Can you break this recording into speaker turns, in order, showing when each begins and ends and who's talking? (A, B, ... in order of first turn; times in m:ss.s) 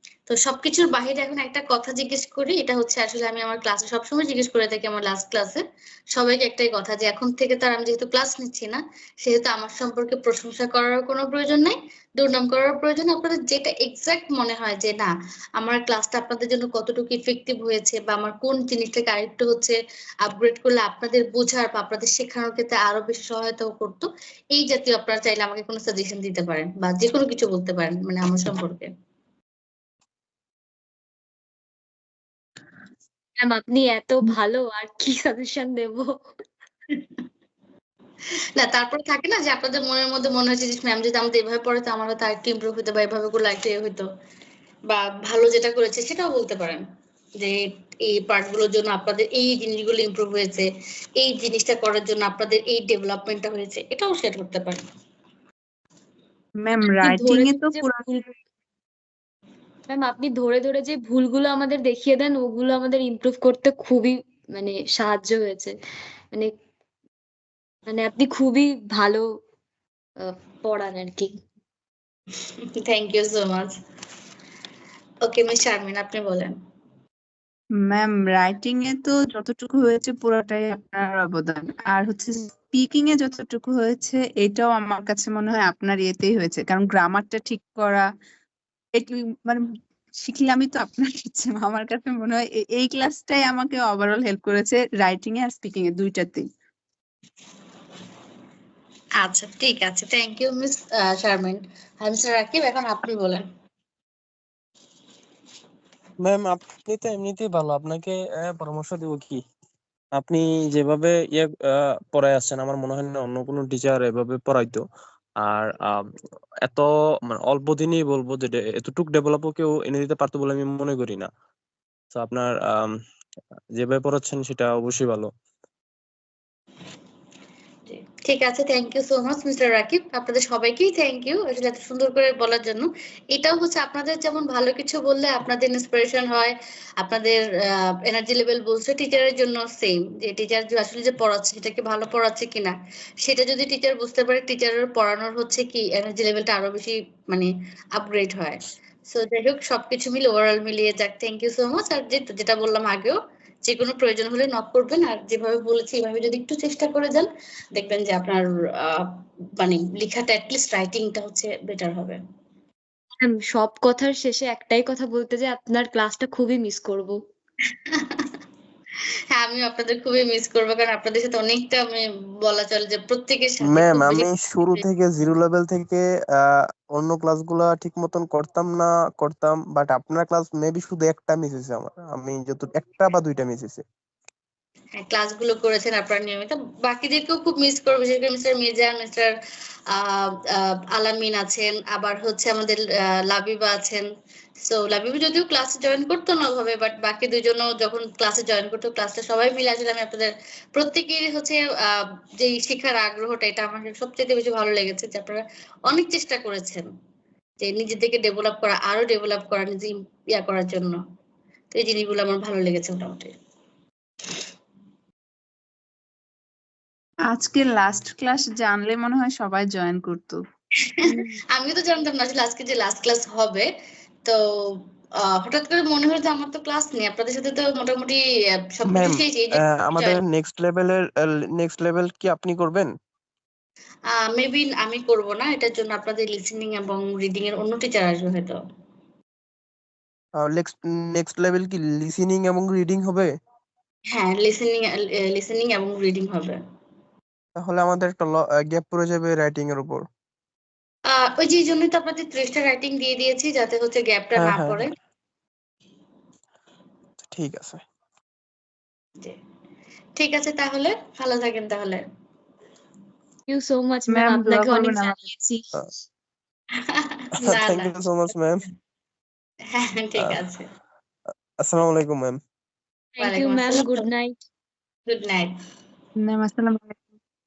0:00.3-0:05.6 A
0:06.1-0:28.9 A
0:33.4-0:36.1 B
0:38.6-0:44.1 A
0:44.9-0:46.8 A
0:47.4-0:54.8 A
0:56.6-0:58.0 C
0:56.9-0:58.3 B
0:59.9-1:05.8 B
1:07.9-1:09.3 B
1:10.2-1:11.3 B
1:12.8-1:13.8 A
1:15.2-1:16.6 A
1:17.8-1:28.1 C
1:29.0-1:29.6 C
1:30.2-1:36.5 C
1:39.2-1:43.4 A
1:46.2-1:49.4 D
1:50.2-1:54.8 D
1:55.4-1:56.1 D
1:56.6-2:01.3 D
2:02.1-2:02.9 D
2:03.8-2:05.3 D
2:07.9-2:17.4 A
2:18.1-2:42.2 A
2:43.2-2:47.2 B
2:47.9-2:48.3 A
2:49.3-2:54.9 A
2:53.6-3:03.8 D
3:05.0-3:09.3 A
3:09.9-3:14.1 A
3:14.6-3:26.9 A
3:27.6-3:31.0 A
3:31.7-3:33.3 A
3:37.3-3:40.4 C
3:40.9-3:43.7 A
3:41.1-3:41.4 B
3:45.2-3:48.2 A
3:48.8-3:50.2 A
3:48.9-3:52.9 D
3:54.1-3:58.6 A
4:00.4-4:03.3 D
4:04.1-4:06.6 A
4:07.6-4:10.0 D
4:11.1-4:14.9 A
4:14.4-4:14.9 D
4:17.2-4:17.8 D
4:20.2-4:22.0 A
4:23.5-4:25.7 B
4:24.1-4:25.2 C
4:26.8-4:28.0 A
4:27.4-4:28.6 D
4:29.7-4:30.7 A
4:31.6-4:32.4 D
4:33.2-4:34.4 B
4:33.2-4:34.1 A
4:35.1-4:35.5 A
4:36.2-4:37.0 C